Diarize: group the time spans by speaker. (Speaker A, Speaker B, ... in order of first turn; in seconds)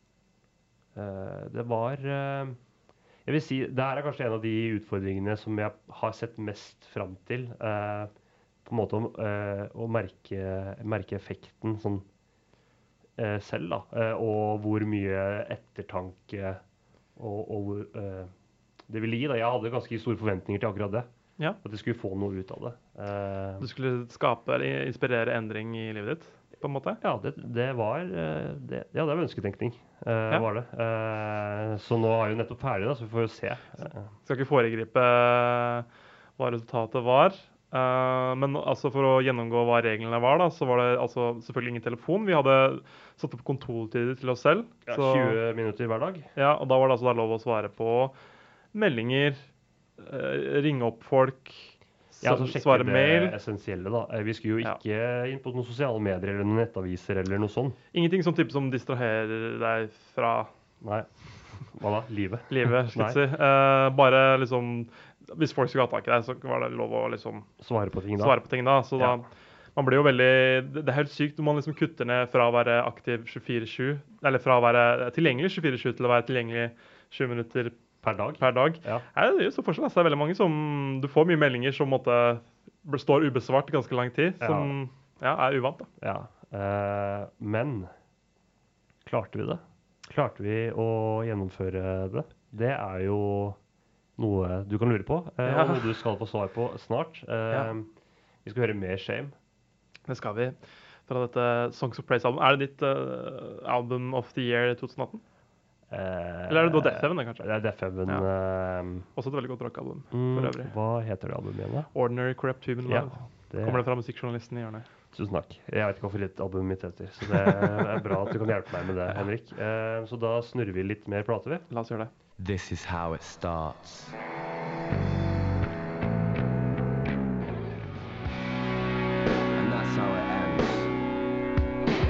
Speaker A: 0.9-2.6, 3.2-8.1, 8.7-12.1, 13.2-16.6, 17.2-18.3, 18.9-21.1, 21.6-23.7, 27.0-34.1, 44.9-46.3, 52.2-57.8, 60.8-63.2, 67.6-68.4, 69.0-69.2, 78.0-79.1, 84.4-84.8, 86.0-87.9, 89.0-93.6, 94.2-97.9, 98.4-99.3, 105.9-109.1, 110.1-111.9, 112.8-113.9, 115.1-121.7
Speaker B: 23.6-27.0, 34.2-45.4, 46.4-48.1, 48.7-49.4, 50.0-53.4, 57.9-60.5, 62.5-67.5, 68.2-77.8, 78.4-85.9, 95.5-95.9, 100.1-105.2, 106.5-107.5, 109.2-110.7, 111.9-114.9, 121.7-122.1
Speaker C: 122.4-124.1, 129.6-130.9